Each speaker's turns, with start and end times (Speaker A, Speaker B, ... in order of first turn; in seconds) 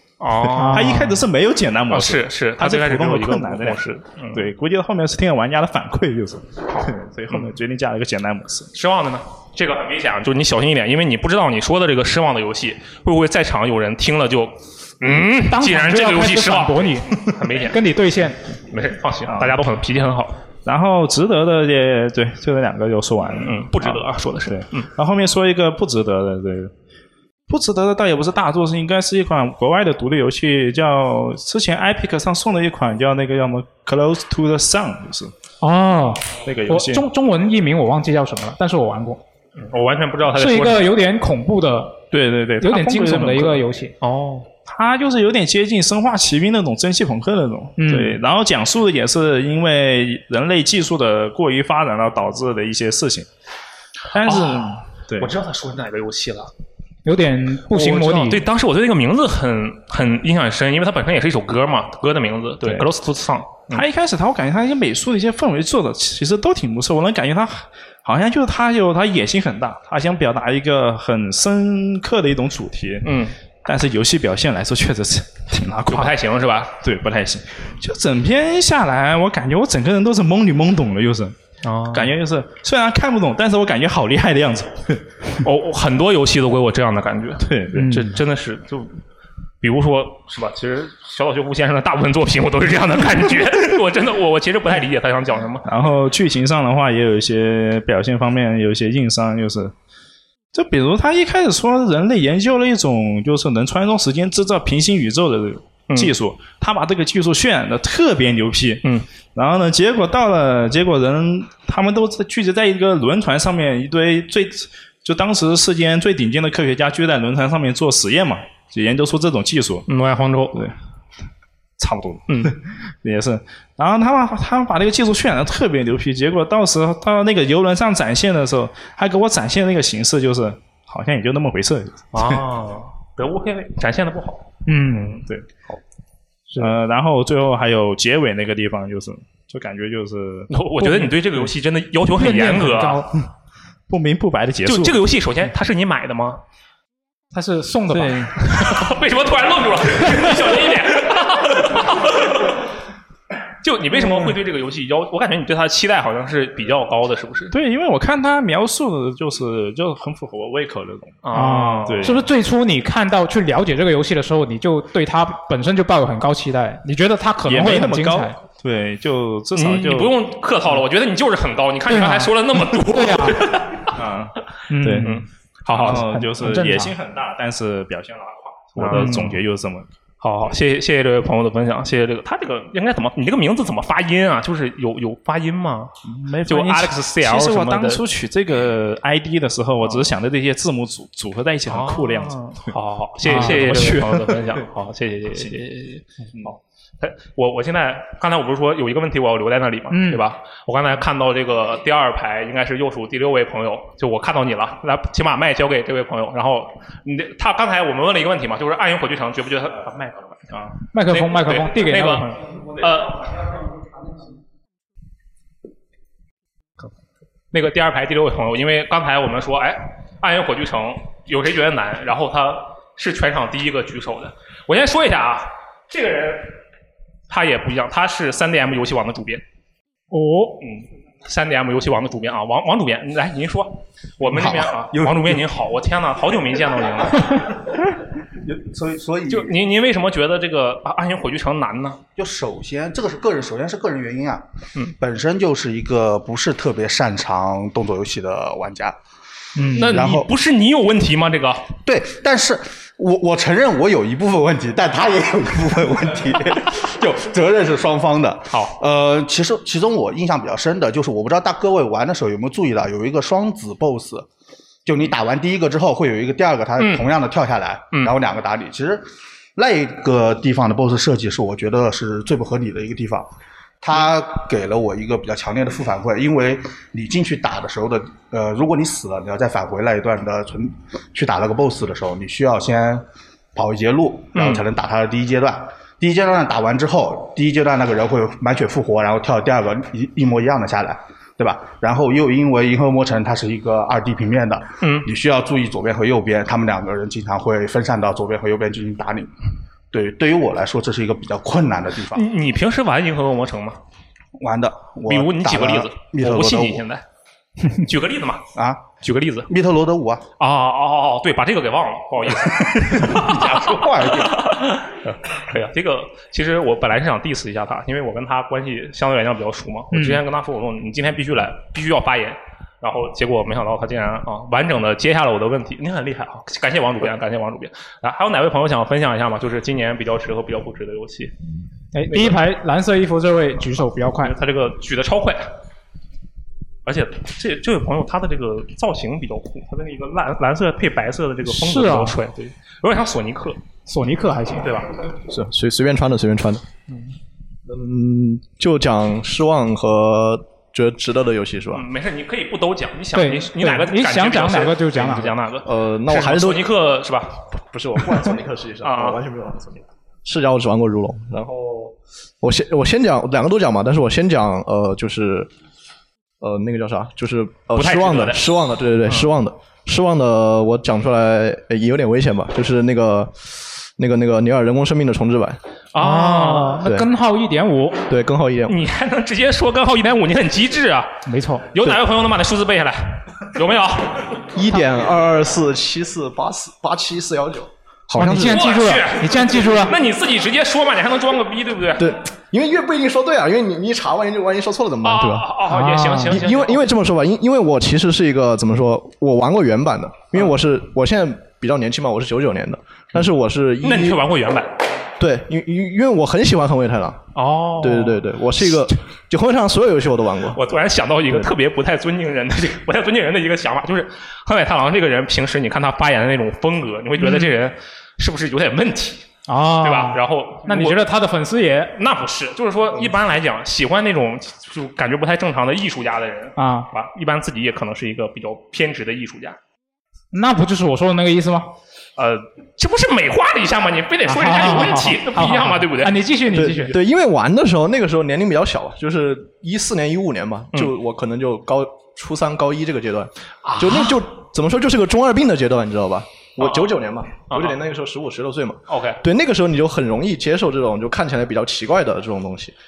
Speaker A: 0.2-1.1, 1.9-4.5, 6.7-7.5, 8.7-17.8, 18.7-20.4, 23.4-24.9, 39.6-40.9, 44.0-44.5, 54.2-56.5, 57.7-63.8, 73.0-73.3, 75.9-76.7, 81.6-82.2, 85.4-89.0, 89.6-95.7, 119.9-120.6, 122.3-122.5, 132.1-135.2, 140.5-143.1, 144.7-146.4, 148.5-152.6, 153.6-157.5, 161.2-162.1, 169.6-173.9, 175.0-176.0, 178.8-179.4, 180.2-185.9, 186.5-188.0, 189.8-190.1, 191.7-213.5, 217.5-226.6, 227.3-229.4, 230.6-237.6, 239.3-242.0, 249.8-251.7, 266.8-267.1, 284.4-284.6, 294.8-295.1, 302.1-303.8, 305.1-307.0, 307.7-309.5, 310.4-331.3, 334.2-335.5, 336.9-343.6, 344.6-344.9, 351.7-357.4, 358.8-359.2, 367.8-368.5, 375.9-376.8, 378.7-381.2, 381.7-384.4, 388.4-392.1, 395.0-396.9, 403.8-404.7, 407.4-408.2, 410.5-419.3, 419.8-421.0, 422.0-429.6, 432.2-436.2, 443.6-444.2, 446.6-446.9, 447.5-447.8, 448.9-449.2
Speaker B: 0.5-8.7, 19.3-19.6, 20.6-26.7, 27.5-35.3, 36.5-37.0, 42.1-43.6, 44.7-53.3, 54.1-55.3, 62.6-62.9, 63.7-73.1, 73.7-76.2, 76.8-81.3, 81.9-85.0, 87.4-88.1, 95.7-99.7, 100.5-119.8, 121.8-132.4, 135.3-135.8, 136.6-140.5, 143.9-145.0, 147.9-148.7, 153.9-154.3, 157.5-161.2, 161.8-162.2, 167.5-170.2, 173.9-179.9, 186.1-194.6
Speaker C: 0.6-1.2, 15.5-18.4, 35.6-39.2, 40.4-42.1, 42.6-43.9, 47.8-48.2, 57.1-58.4, 134.7-135.2, 140.8-141.1, 142.2-143.1, 147.3-148.4, 161.3-168.4, 171.9-173.4, 174.7-175.1, 175.8-176.9, 178.9-179.3, 193.3-194.0, 199.9-200.2, 210.9-212.4, 230.1-230.6, 249.6-249.9, 319.9-320.2, 331.9-334.4, 341.5-342.2, 343.9-344.7, 353.1-355.4, 376.0-378.0, 381.3-381.7, 388.1-389.9, 395.7-396.4, 417.2-417.5, 419.5-421.9, 426.6-426.9, 430.3-431.7, 434.3-437.0
Speaker D: 234.4-235.0, 238.5-239.6, 242.2-244.4, 245.0-249.0, 249.8-250.3, 251.8-264.3, 264.9-269.0, 269.6-273.3, 273.8-283.0, 283.6-299.3, 299.9-302.2, 304.4-306.9, 308.6-308.9, 309.5-310.2, 312.5-314.6
Speaker E: 345.3-346.6, 347.7-351.9, 355.6-356.8, 357.7-365.5, 366.4-375.6, 376.8-377.1, 378.1-378.8, 384.5-388.7, 392.0-395.6, 396.2-404.2, 405.2-407.3, 407.8-410.6, 436.5-452.7